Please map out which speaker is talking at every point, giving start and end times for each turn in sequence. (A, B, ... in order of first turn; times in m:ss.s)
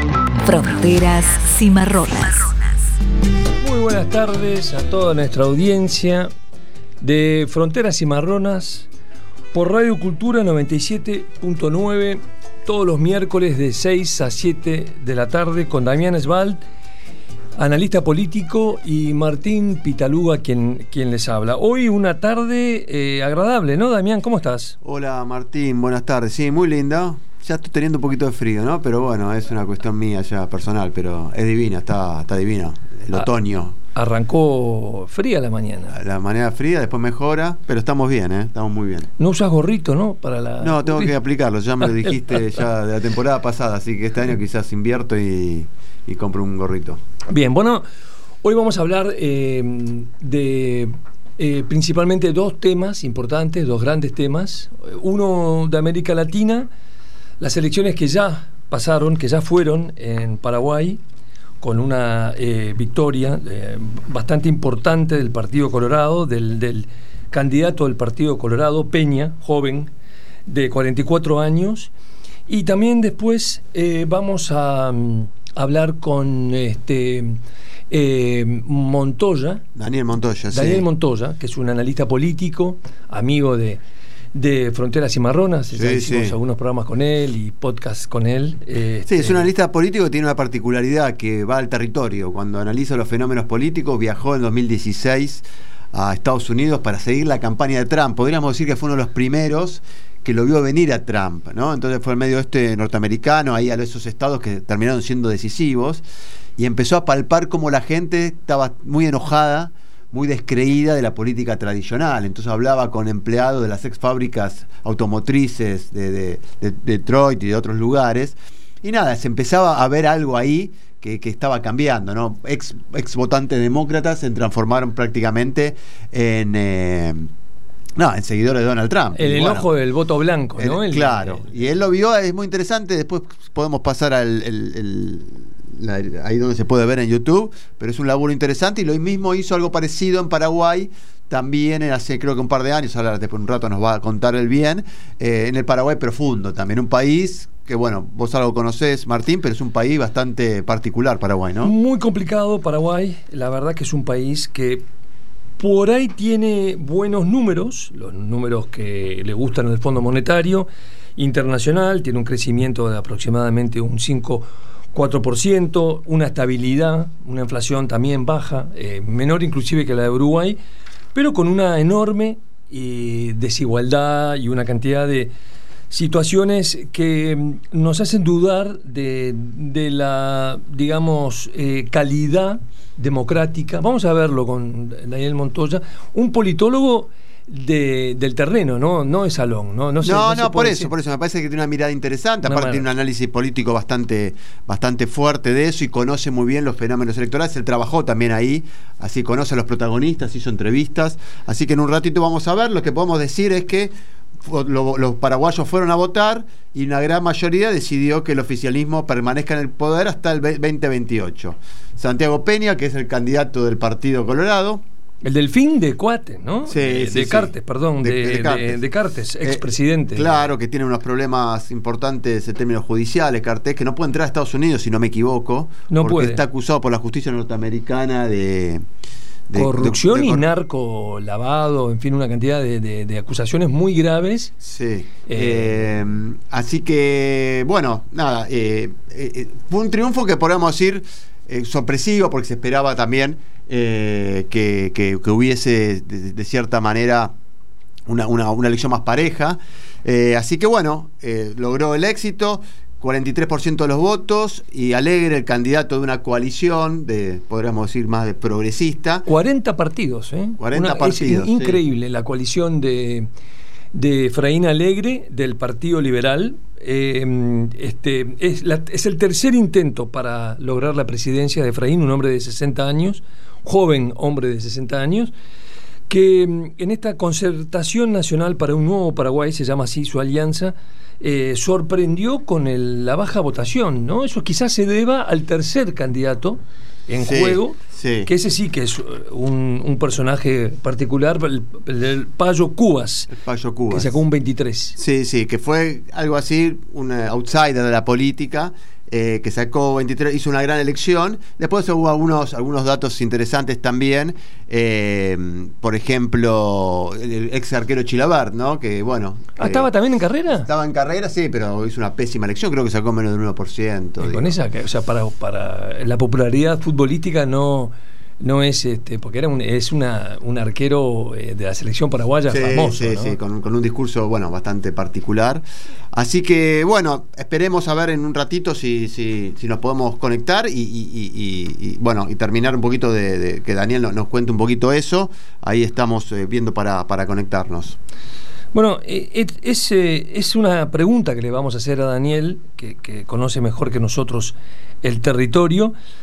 0:00.4-0:02.6 A
0:03.6-0:06.3 B
0:07.0-0:08.9 B
0:09.5-0:16.6 B
0:17.6-0:24.8 B
0:24.8-0:33.7 C
0:33.9-0:36.0 B
0:35.9-0:39.1 C
0:39.2-0:41.2 B
0:40.6-0:47.0 C
0:41.8-0:42.5 B
0:47.3-0:47.8 B
0:48.4-0:56.7 B
0:57.4-1:01.0 B
1:01.6-1:09.9 B
1:10.5-1:11.9 B
1:12.5-1:17.4 B
1:17.9-1:19.6 B
1:19.8-1:20.8 C
1:20.5-1:23.8 B
1:24.3-1:29.5 B
1:25.7-1:26.4 C
1:29.1-1:46.0 C
1:46.6-2:07.3 C
2:08.0-2:09.7 C
2:09.2-2:11.5 B
2:10.6-2:31.7 C
2:31.6-2:34.8 B
2:35.6-2:50.6 B
2:51.1-2:55.3 B
2:55.9-3:10.9 B
3:10.0-3:23.9 C
3:12.4-3:12.8 B
3:24.4-3:34.8 C
3:35.2-3:40.5 B
3:36.7-3:38.8 C
3:39.4-3:48.8 C
3:45.9-3:46.4 B
3:49.5-3:50.4 C
3:49.5-3:54.5 B
3:54.6-4:07.3 C
3:55.3-3:55.7 B
4:08.1-4:19.2 C
4:19.2-4:23.3 B
4:20.6-4:21.8 C
4:23.9-4:35.3 B
4:36.1-4:53.3 B
4:47.2-4:48.3 C
4:53.3-4:54.2 C
4:53.9-4:55.0 B
4:55.0-5:09.9 C
5:09.6-5:10.7 B
5:10.6-5:14.5 C
5:14.2-5:23.4 B
5:22.5-5:38.0 C
5:38.7-5:45.9 B